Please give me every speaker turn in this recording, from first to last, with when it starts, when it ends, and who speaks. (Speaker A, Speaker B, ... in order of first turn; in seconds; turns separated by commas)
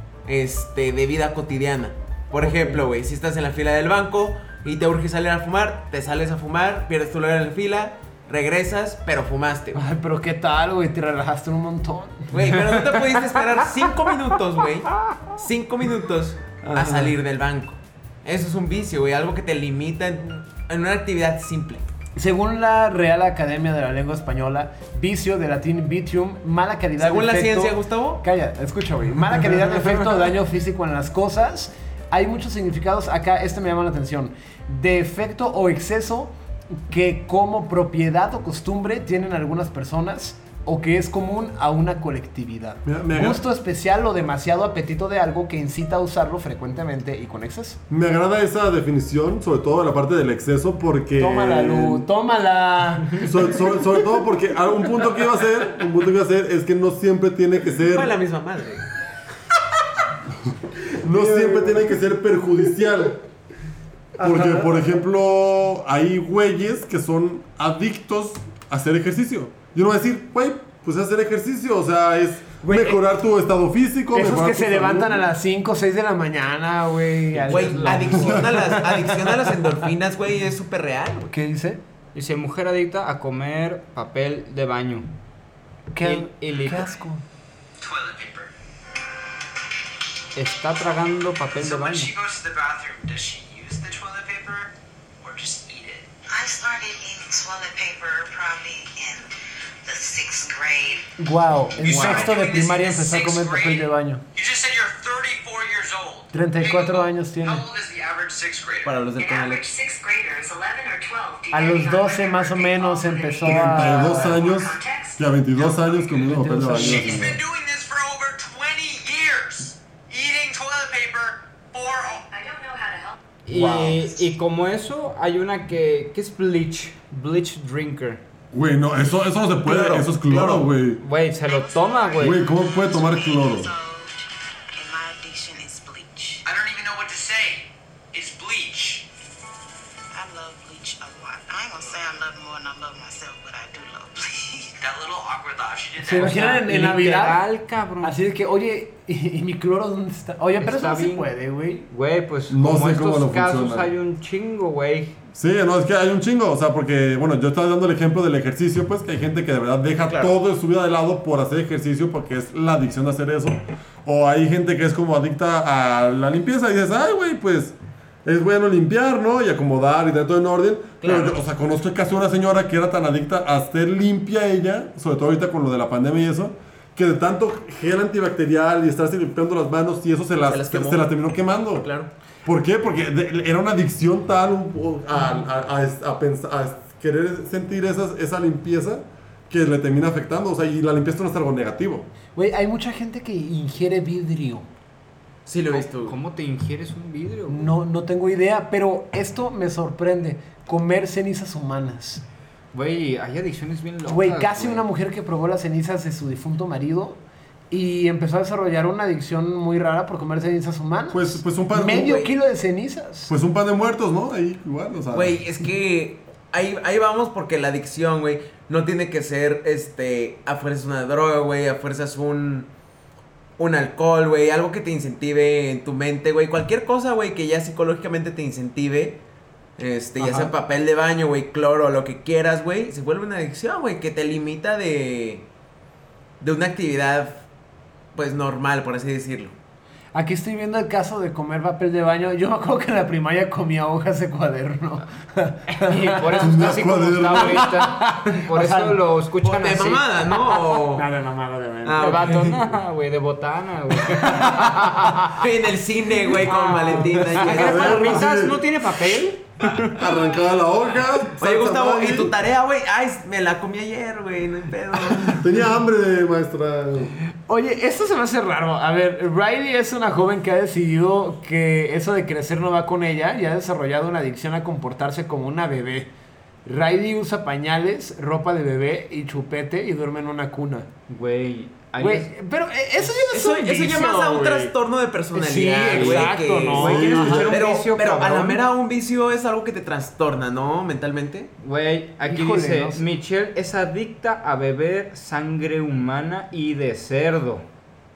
Speaker A: 0.3-9.8, Speaker B: 2.4-2.8, Speaker B: 9.7-13.1, Speaker A: 12.3-21.9, Speaker B: 16.6-17.2, Speaker B: 22.1-47.8, Speaker A: 27.0-28.2, Speaker C: 42.8-43.4, Speaker C: 47.9-52.1, Speaker B: 51.2-54.2, Speaker C: 53.2-58.1, Speaker A: 57.8-58.8, Speaker C: 61.0-63.2, Speaker B: 61.0-62.0, Speaker B: 64.2-64.9, Speaker C: 64.2-75.2, Speaker B: 72.6-73.0, Speaker B: 74.1-79.7, Speaker D: 77.3-78.4, Speaker A: 77.5-81.3, Speaker C: 78.1-78.5, Speaker B: 81.3-81.8, Speaker D: 82.1-85.1, Speaker B: 85.9-87.2, Speaker D: 86.0-86.9, Speaker E: 87.8-88.5, Speaker D: 90.3-92.1, Speaker E: 91.6-96.1, Speaker F: 96.3-99.3, Speaker F: 99.8-101.0, Speaker B: 101.2-104.2, Speaker E: 101.8-109.0, Speaker A: 101.8-102.3, Speaker B: 106.3-107.7, Speaker A: 108.8-109.7, Speaker F: 109.2-116.0, Speaker B: 111.5-114.2, Speaker C: 113.4-117.4, Speaker D: 116.3-117.3, Speaker E: 116.3-122.2, Speaker F: 122.3-123.2, Speaker D: 123.5-128.2, Speaker C: 123.5-123.9, Speaker C: 128.5-131.0, Speaker A: 129.6-130.7, Speaker D: 131.0-132.4, Speaker F: 131.4-134.1, Speaker C: 132.2-133.7, Speaker F: 134.7-136.4, Speaker E: 136.4-139.1, Speaker F: 140.1-144.7, Speaker E: 144.8-146.4, Speaker B: 146.0-147.4, Speaker D: 146.2-148.2, Speaker B: 148.0-151.9, Speaker D: 150.6-151.3, Speaker D: 151.9-155.2, Speaker C: 152.5-153.9, Speaker C: 155.3-181.9, Speaker A: 160.1-160.3, Speaker A: 171.0-171.3, Speaker A: 180.5-181.2, Speaker A: 181.8-182.1, Speaker C: 182.4-192.1, Speaker B: 192.3-194.7, Speaker A: 195.4-196.2, Speaker D: 195.7-197.7, Speaker B: 197.5-202.2, Speaker D: 202.7-204.8, Speaker B: 204.1-213.3, Speaker C: 211.1-212.2, Speaker A: 212.0-212.3, Speaker C: 213.3-215.4, Speaker A: 215.1-222.7, Speaker A: 223.6-229.2, Speaker A: 229.8-235.4, Speaker B: 230.2-230.5, Speaker A: 236.4-237.4, Speaker A: 238.1-239.5, Speaker B: 240.1-246.7, Speaker D: 245.7-250.6, Speaker C: 246.4-247.7, Speaker B: 247.4-249.0, Speaker A: 249.4-251.1, Speaker B: 250.8-252.5, Speaker A: 251.8-252.8, Speaker D: 252.0-255.4, Speaker B: 254.2-255.0, Speaker A: 255.3-258.2, Speaker D: 256.2-260.1, Speaker B: 256.5-257.5, Speaker C: 257.5-258.6, Speaker C: 259.9-262.3, Speaker A: 261.4-265.4, Speaker C: 265.3-267.1, Speaker B: 267.3-276.1, Speaker B: 276.6-280.9, Speaker D: 281.1-282.3, Speaker B: 282.0-284.7, Speaker A: 283.3-291.5, Speaker B: 285.3-287.6, Speaker D: 285.9-288.6, Speaker C: 286.8-287.5, Speaker D: 291.6-297.6, Speaker B: 292.2-293.0